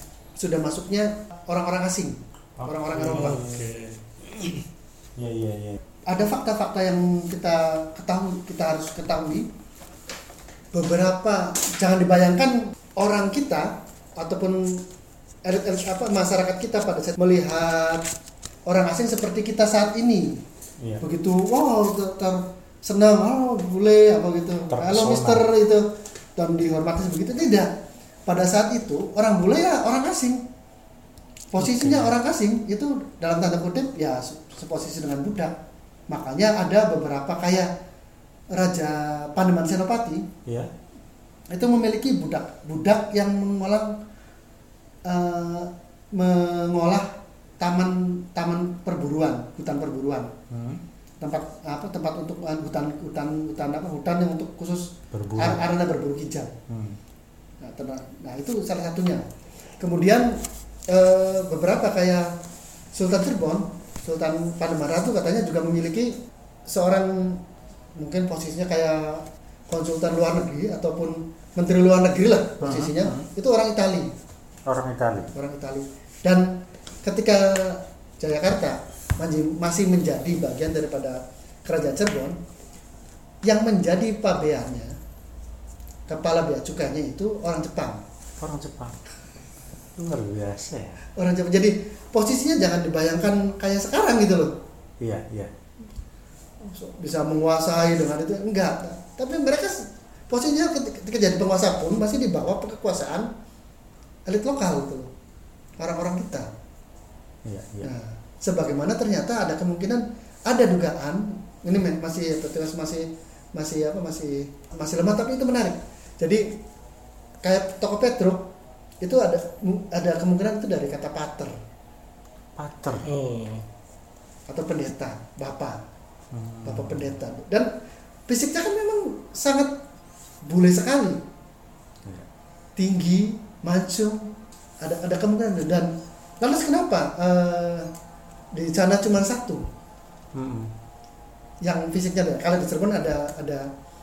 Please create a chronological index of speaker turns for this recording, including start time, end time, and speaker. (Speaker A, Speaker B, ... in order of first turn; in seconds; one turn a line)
Speaker A: 0.4-3.5
Speaker B: 2.6-3.8
Speaker C: 3.0-4.6
Speaker B: 5.2-5.8
Speaker A: 6.1-9.5
Speaker A: 10.7-14.8
Speaker A: 15.4-18.1
Speaker A: 18.7-20.4
Speaker A: 21.0-27.7
Speaker B: 24.7-25.4
Speaker A: 28.2-30.4
Speaker A: 31.5-35.5
Speaker B: 31.6-32.1
Speaker A: 36.1-37.7
Speaker A: 38.5-40.3
Speaker A: 41.5-44.0
Speaker A: 45.0-47.1
Speaker A: 47.6-50.3
Speaker B: 50.5-50.8
Speaker A: 51.2-56.5
Speaker B: 55.1-55.6
Speaker B: 56.7-57.0
Speaker A: 57.6-59.2
Speaker A: 59.8-62.3
Speaker A: 62.9-66.1
Speaker A: 66.7-67.4
Speaker A: 68.0-74.1
Speaker B: 72.6-73.3
Speaker B: 74.7-75.3
Speaker A: 75.3-82.4
Speaker A: 83.4-84.9
Speaker A: 86.1-88.0
Speaker B: 88.4-89.0
Speaker B: 90.0-91.0
Speaker A: 91.2-94.5
Speaker B: 95.0-95.5
Speaker A: 96.6-103.3
Speaker A: 104.3-105.1
Speaker A: 105.8-106.5
Speaker B: 107.4-107.9
Speaker A: 107.8-116.5
Speaker A: 117.4-118.5
Speaker A: 119.0-121.5
Speaker B: 122.5-123.1
Speaker C: 123.0-123.6
Speaker A: 124.5-125.8
Speaker B: 126.3-127.1
Speaker A: 126.6-127.7
Speaker A: 128.3-129.7
Speaker A: 130.4-131.2
Speaker A: 132.8-137.9
Speaker A: 138.5-139.6
Speaker B: 140.3-140.7
Speaker A: 141.6-143.7